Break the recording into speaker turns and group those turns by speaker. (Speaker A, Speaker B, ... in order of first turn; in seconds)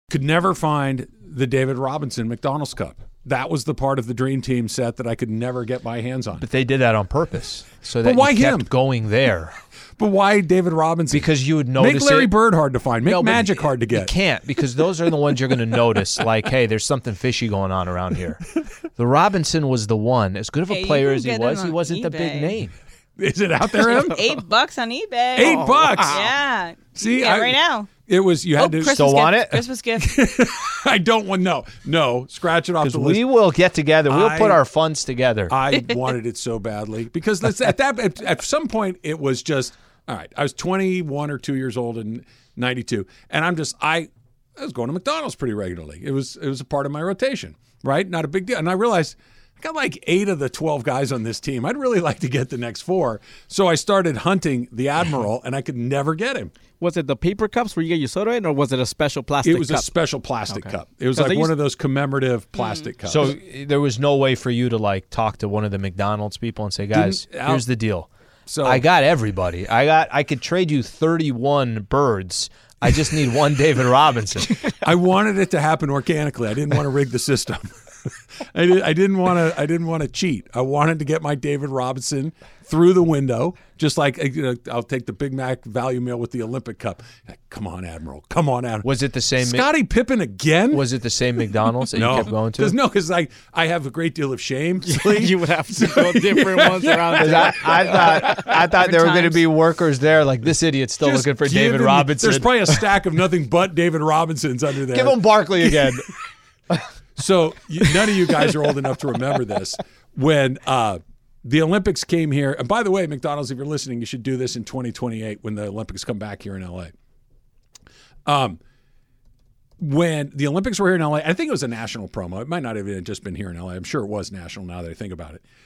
Speaker A: 0.1-6.5, 8.0-8.7, 10.0-14.1, 23.2-24.2, 25.3-26.2, 26.9-28.9, 30.0-33.2, 34.1-34.6, 35.5-56.5, 59.4-63.3, 66.9-67.6, 68.5-68.8, 74.8-77.7, 78.5-90.8, 91.9-98.6, 101.0-106.0, 107.2-116.9, 118.3-118.6, 119.8-125.4
Speaker B: 6.4-9.6, 11.1-12.3, 13.1-18.4, 19.0-22.7, 28.9-29.6, 32.8-35.6, 63.0-68.1, 68.6-74.6, 88.8-89.7, 90.7-92.8, 97.2-102.9, 104.9-106.1, 107.9-108.5
Speaker C: 20.7-22.6, 23.8-27.9, 28.5-30.1, 62.5-62.9, 98.7-99.4
Speaker D: 25.4-26.3, 56.8-61.6, 94.8-98.3